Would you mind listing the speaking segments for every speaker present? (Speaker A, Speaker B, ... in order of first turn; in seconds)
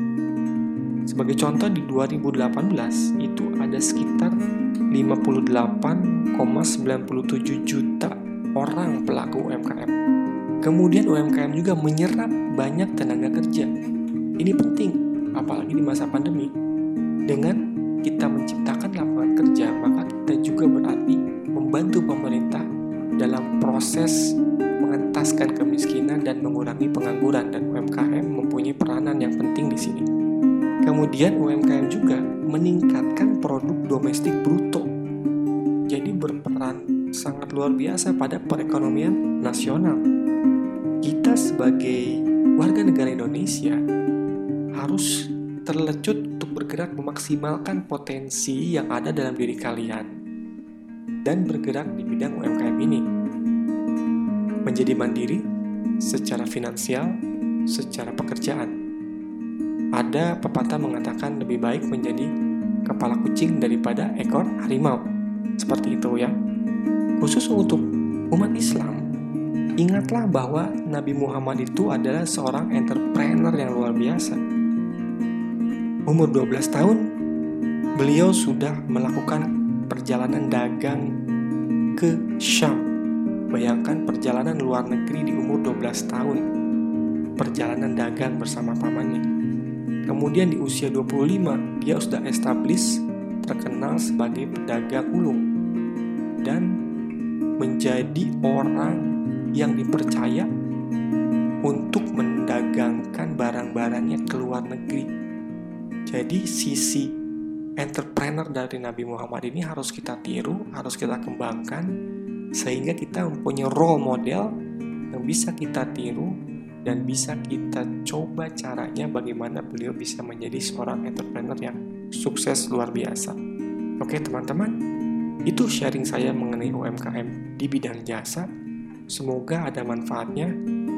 Speaker A: 1.1-4.3, 4.9-9.9, 10.6-13.7, 14.4-16.5, 17.3-22.6, 23.2-24.2, 24.8-30.0, 30.9-34.9, 35.9-40.0, 41.0-42.0, 42.6-43.8, 44.8-45.1, 45.7-50.1, 51.2-53.0, 54.7-55.4, 56.1-57.1, 57.7-58.7, 60.0-62.3, 62.9-65.0, 65.6-66.3, 67.2-69.0, 69.8-74.4, 76.1-77.0, 78.0-81.0, 82.0-82.8, 83.5-86.4, 87.4-89.2, 90.1-92.9, 93.4-95.4, 97.6-99.0, 99.6-100.5, 101.7-105.1, 106.1-107.1, 107.8-111.9, 112.6-114.5, 115.1-116.3, 116.8-123.3, 124.0-124.7, 125.5-128.4, 129.1-130.5